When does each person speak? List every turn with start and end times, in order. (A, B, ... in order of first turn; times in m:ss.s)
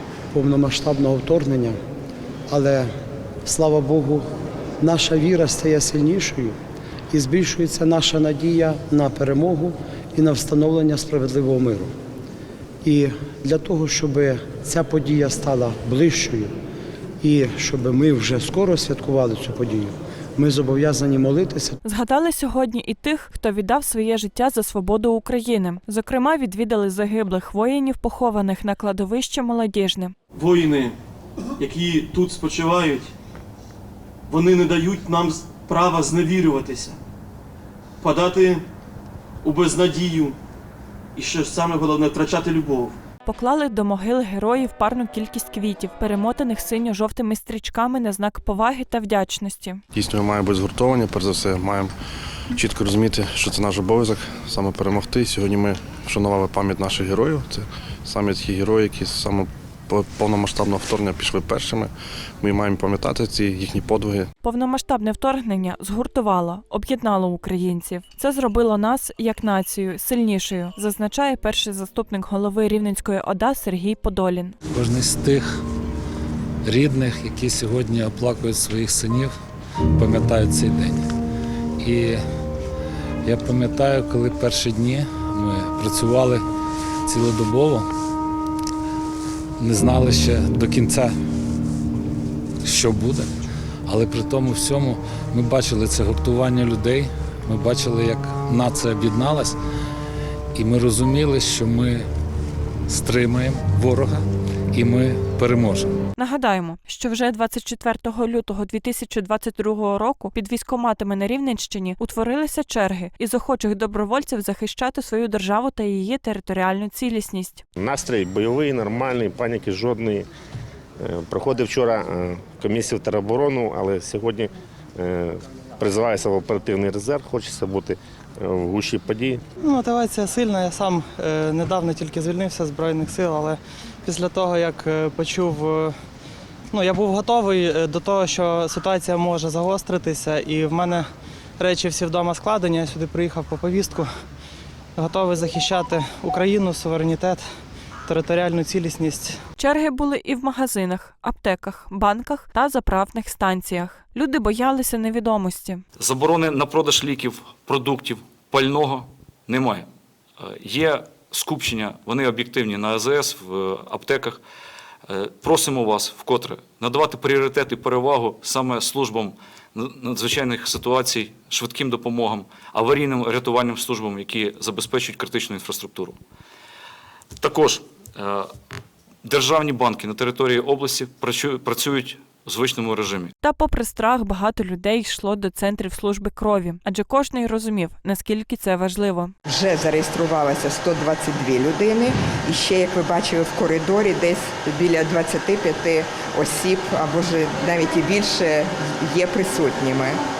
0:00.3-0:01.8 A
0:02.5-0:02.9 A
0:03.4-0:04.3 A
0:04.8-0:06.6 A
0:07.1-0:11.9 A
0:12.8-0:16.5 A
0:17.2-0:21.8 A
0:21.8-0:30.1 B
0:30.4-0:31.0 C
0:31.6-0:33.1 C
0:34.3-0:37.0 C
0:38.0-0:38.6 C
0:39.4-0:40.4 C
0:41.2-0:43.0 C
0:43.2-0:49.8 B
0:50.0-0:51.9 D
0:52.6-1:01.9 D
1:02.4-1:04.3 D
1:04.4-1:14.6 B
1:14.7-1:15.4 E
1:16.6-1:19.3 E
1:20.0-1:20.9 E
1:21.8-1:22.2 E
1:23.2-1:26.4 E
1:27.1-1:27.9 E
1:29.6-1:31.1 E
1:32.6-1:33.3 E
1:33.9-1:39.6 E
1:40.6-1:42.1 E
1:42.9-1:44.2 E
1:44.7-1:45.9 E
1:46.2-1:57.6 B
1:57.8-2:00.3 F
2:01.0-2:09.4 F
2:09.6-2:16.0 G
2:16.7-2:21.1 G
2:21.6-2:24.1 G
2:25.0-2:27.4 G
2:28.1-2:29.4 G
2:29.6-2:35.8 B
2:36.0-2:39.9 H
2:40.4-2:44.4 H
2:45.1-2:56.2 H
2:57.4-2:58.5 H
2:59.2-3:03.3 H
3:03.4-3:09.3 B
3:09.5-3:20.2 I